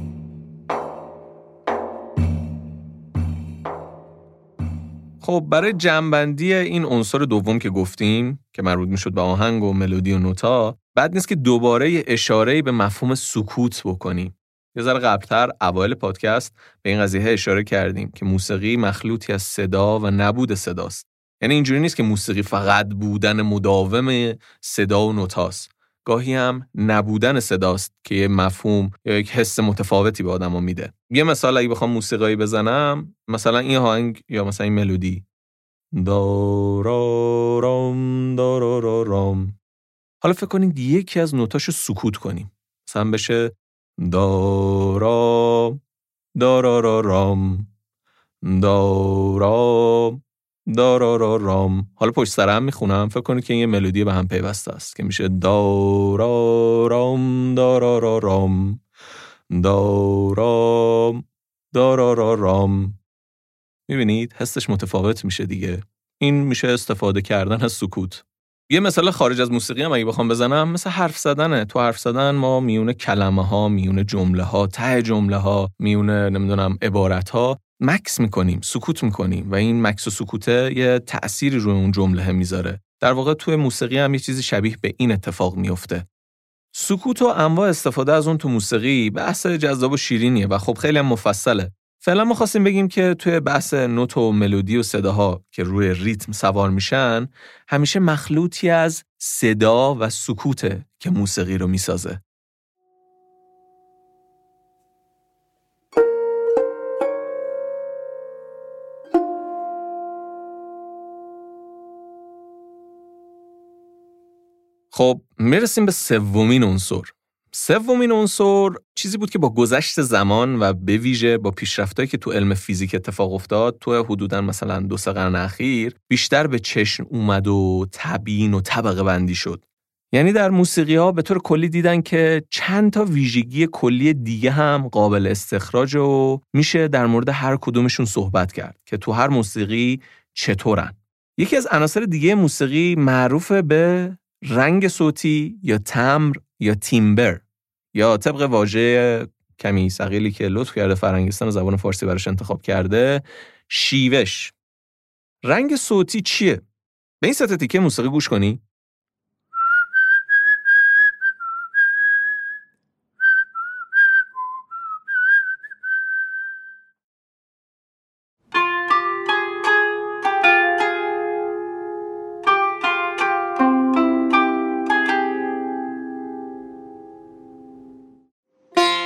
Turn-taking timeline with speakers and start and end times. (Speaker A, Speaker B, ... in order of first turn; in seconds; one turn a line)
Speaker A: 5.2-35.2
Speaker A: 36.0-39.6
Speaker A: 40.2-45.8
Speaker A: 46.4-47.7
Speaker A: 48.4-58.8
Speaker A: 59.5-63.0
Speaker A: 63.9-86.1
Speaker A: 86.7-102.2
Speaker A: 114.9-129.6
Speaker A: 130.1-147.4
Speaker A: 147.9-154.5
Speaker A: 155.4-156.6
Speaker A: 157.2-158.6